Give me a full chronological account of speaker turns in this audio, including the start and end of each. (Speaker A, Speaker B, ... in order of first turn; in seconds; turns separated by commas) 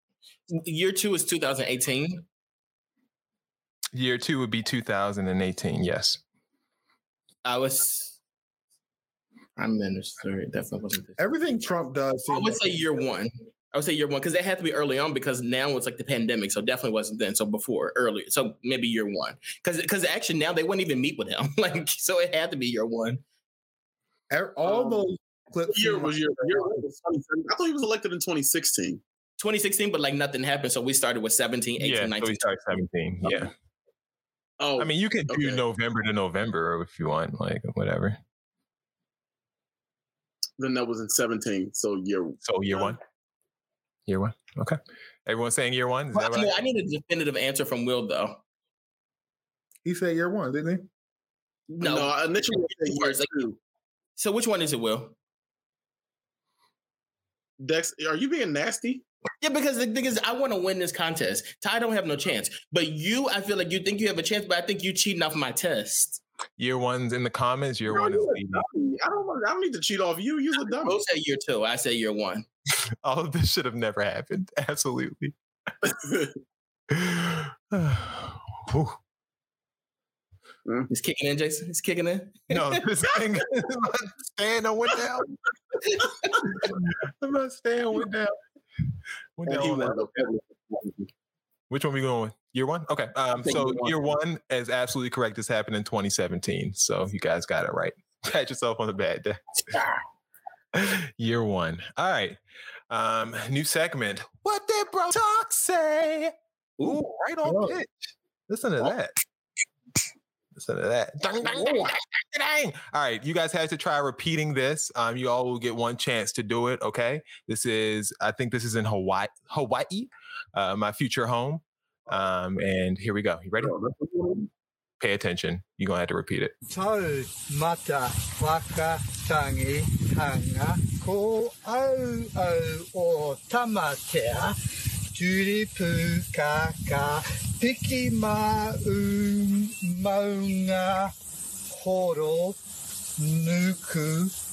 Speaker A: 0.5-2.2, Speaker B: 3.9-6.2, Speaker A: 7.5-8.2, Speaker A: 9.6-11.2, Speaker C: 11.2-12.6, Speaker A: 12.3-23.2, Speaker C: 24.3-26.9, Speaker D: 24.7-25.0, Speaker D: 25.7-29.0, Speaker A: 29.4-32.6, Speaker B: 31.8-33.5, Speaker D: 34.6-35.6, Speaker B: 34.8-38.2, Speaker D: 40.6-43.0, Speaker B: 42.4-43.0, Speaker B: 44.1-46.6, Speaker A: 46.1-48.4, Speaker C: 49.8-50.9, Speaker A: 51.8-52.1, Speaker D: 51.8-53.6, Speaker A: 52.7-53.4, Speaker A: 54.2-55.1, Speaker D: 57.6-59.0, Speaker A: 59.4-66.2, Speaker B: 66.6-68.7, Speaker D: 67.9-71.0, Speaker A: 70.8-72.5, Speaker B: 73.0-75.3, Speaker D: 75.8-76.3, Speaker B: 76.9-79.0, Speaker A: 80.9-82.8, Speaker B: 82.5-85.3, Speaker B: 86.4-88.3, Speaker B: 89.4-90.3, Speaker D: 89.5-91.1, Speaker B: 91.7-99.4, Speaker A: 93.4-94.0, Speaker B: 100.7-102.4, Speaker B: 102.9-109.1, Speaker C: 107.5-107.8, Speaker B: 110.6-123.8, Speaker D: 123.6-124.5, Speaker B: 125.0-126.5, Speaker E: 126.7-134.6, Speaker E: 135.1-141.1, Speaker E: 141.7-142.6, Speaker E: 143.2-144.3